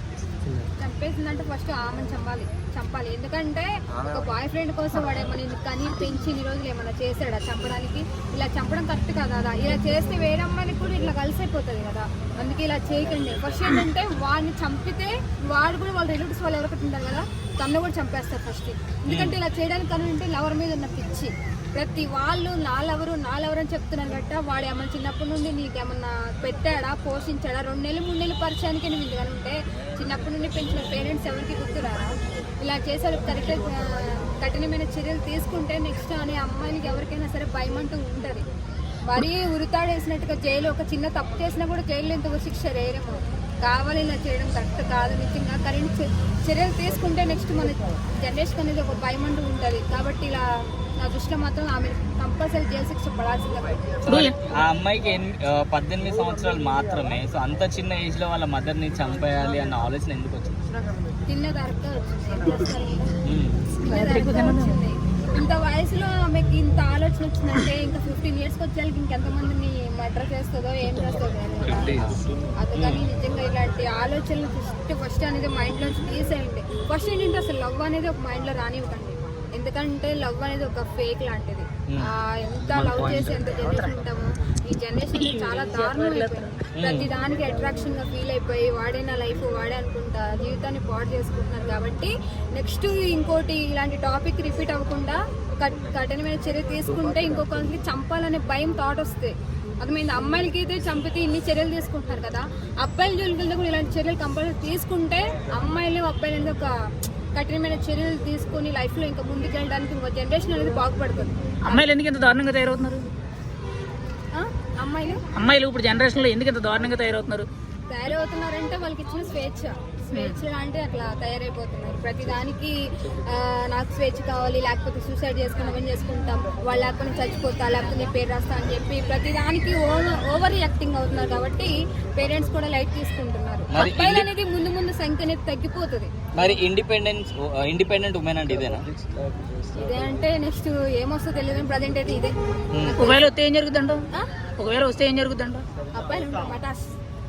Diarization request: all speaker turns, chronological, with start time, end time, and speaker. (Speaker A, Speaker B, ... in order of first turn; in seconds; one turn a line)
Speaker A: 0.8-38.5
Speaker B: 19.1-19.4
Speaker A: 39.0-50.4
Speaker A: 51.0-54.1
Speaker C: 54.1-54.3
Speaker B: 54.1-60.6
Speaker A: 61.3-63.1
Speaker B: 63.2-63.7
Speaker A: 63.7-72.1
Speaker C: 63.9-64.8
Speaker B: 71.9-72.2
Speaker A: 72.6-106.7
Speaker B: 72.8-73.0
Speaker C: 85.1-86.6
Speaker B: 86.8-87.1
Speaker A: 107.3-111.9
Speaker C: 111.7-113.0
Speaker A: 114.3-115.2
Speaker C: 115.4-117.5
Speaker A: 117.9-136.1
Speaker B: 133.7-134.3
Speaker B: 136.3-138.9
Speaker A: 139.7-143.3
Speaker B: 142.7-143.0
Speaker C: 143.0-144.0
Speaker C: 144.6-145.7
Speaker A: 145.9-146.8